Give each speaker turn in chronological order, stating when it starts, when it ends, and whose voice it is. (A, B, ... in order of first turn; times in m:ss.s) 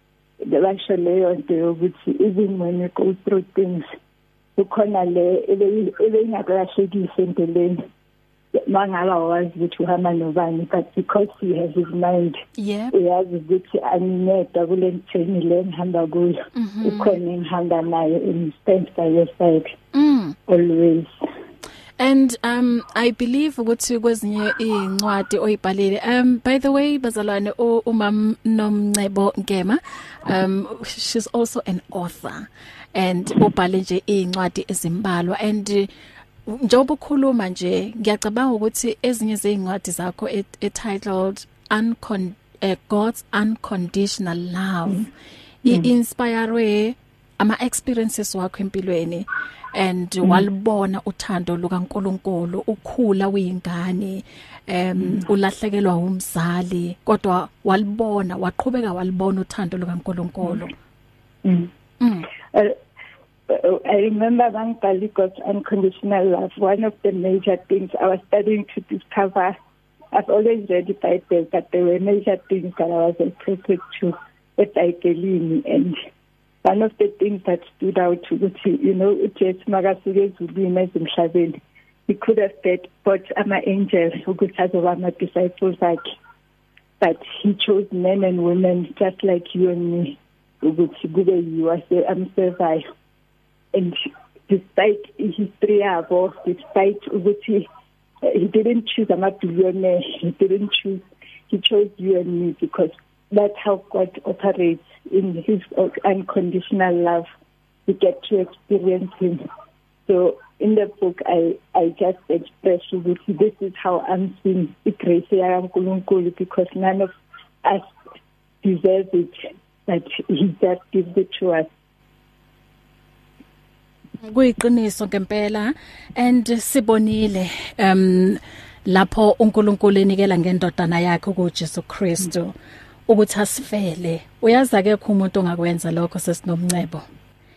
0:00.4-0:03.9 A
0:04.6-0:07.8 A
0:08.5-0:19.7 A
0:12.6-0:12.9 B
0:16.5-0:17.2 B
0:19.9-0:20.4 B
0:20.5-0:21.1 A
0:22.0-0:35.9 B
0:36.5-0:45.0 B
0:45.6-1:00.7 B
0:55.0-0:55.2 A
1:01.4-1:01.7 A
1:02.0-1:02.3 B
1:02.5-1:02.8 A
1:03.5-1:09.6 A
1:10.1-1:16.0 A
1:16.6-1:26.0 A
1:27.0-1:32.8 A
1:33.7-1:37.7 A
1:38.2-1:47.3 A
1:47.8-1:49.4 A
1:50.0-1:57.9 A
1:58.6-2:01.7 A
2:04.2-2:12.5 B
2:13.1-2:17.0 B